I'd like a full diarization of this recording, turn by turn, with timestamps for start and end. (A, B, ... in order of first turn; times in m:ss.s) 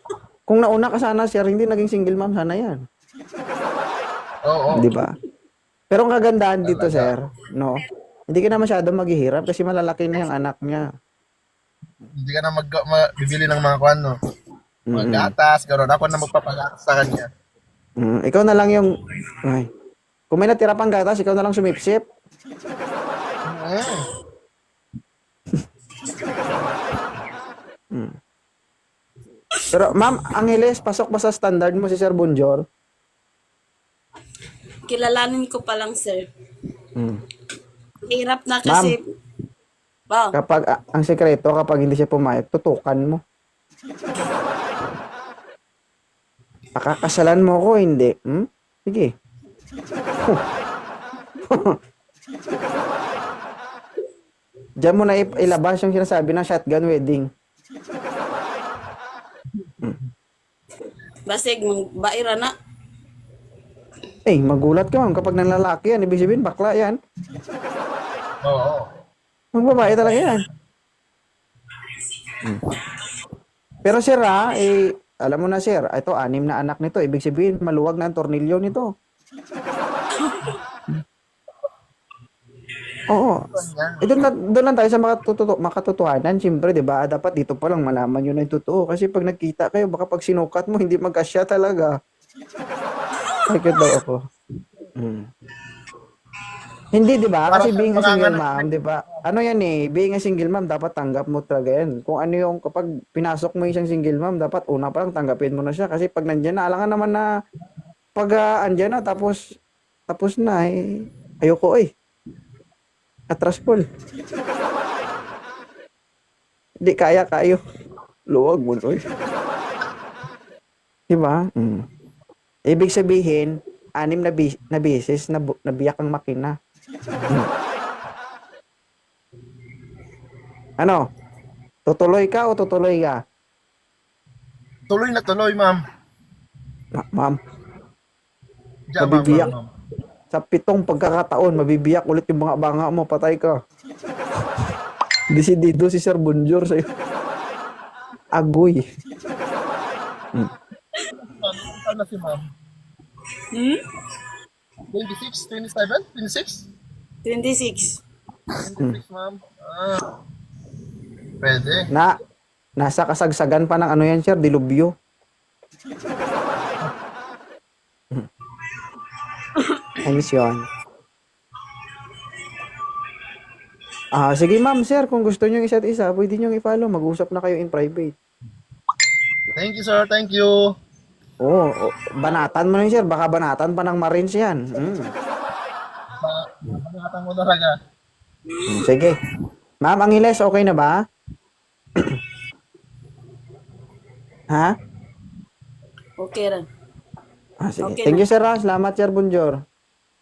0:00.5-0:02.8 A
0:04.5-0:04.9 B
0:04.7-0:05.2 A
0:05.9-0:10.8 A
0:06.6-0:07.1 B
0:12.2-0:14.1 B
0:14.9-0:15.3 A
0:14.9-0:17.3 B
0:18.0-0:18.9 A
0:19.4-0:19.7 A
0:20.3-0:22.0 A
0:23.5-0:24.0 B
0:29.7-0:32.6 A
0:34.9-0:36.3 C
0:38.1-0:39.0 C
0:38.6-0:39.0 A
0:40.1-0:40.4 C
0:40.3-0:43.2 A
0:46.8-0:49.1 A
0:51.4-0:51.8 A
0:54.8-0:57.3 A
1:01.3-1:02.5 C
1:04.3-1:07.0 A
1:08.4-1:08.9 B
1:09.5-1:10.4 A
1:09.9-1:10.3 B
1:13.8-1:18.9 A
1:20.1-1:20.6 C
1:23.1-1:23.5 A
1:23.4-1:24.3 B
1:24.0-1:31.9 A
1:33.5-1:34.2 A
1:35.0-1:35.3 A
1:36.9-1:47.2 A
1:37.5-1:39.2 B
1:48.2-1:49.4 A
1:50.1-1:51.9 A
1:53.3-1:53.9 A
1:56.8-1:57.6 A
1:58.3-1:59.0 A
2:01.1-2:01.9 A
2:02.7-2:06.6 A
2:10.8-2:11.1 A
2:11.9-2:13.2 A
2:14.9-2:15.8 B
2:17.0-2:17.4 A
2:18.9-2:19.7 B
2:19.0-2:19.5 A
2:20.3-2:23.6 A
2:25.3-2:26.9 A
2:28.3-2:28.8 A
2:31.2-2:32.4 B
2:33.5-2:33.8 C
2:34.9-2:36.6 B
2:37.2-2:38.0 C
2:38.6-2:40.1 B
2:41.4-2:41.9 B
2:42.8-2:44.9 A
2:49.6-2:50.0 C
2:50.0-2:50.7 A
2:54.1-2:58.2 A
2:59.6-3:00.6 B
3:01.4-3:05.1 A
3:06.2-3:07.7 B
3:08.5-3:08.9 C
3:08.7-3:09.2 A
3:09.8-3:11.0 A
3:16.2-3:16.7 C
3:17.6-3:19.6 A
3:17.8-3:18.3 C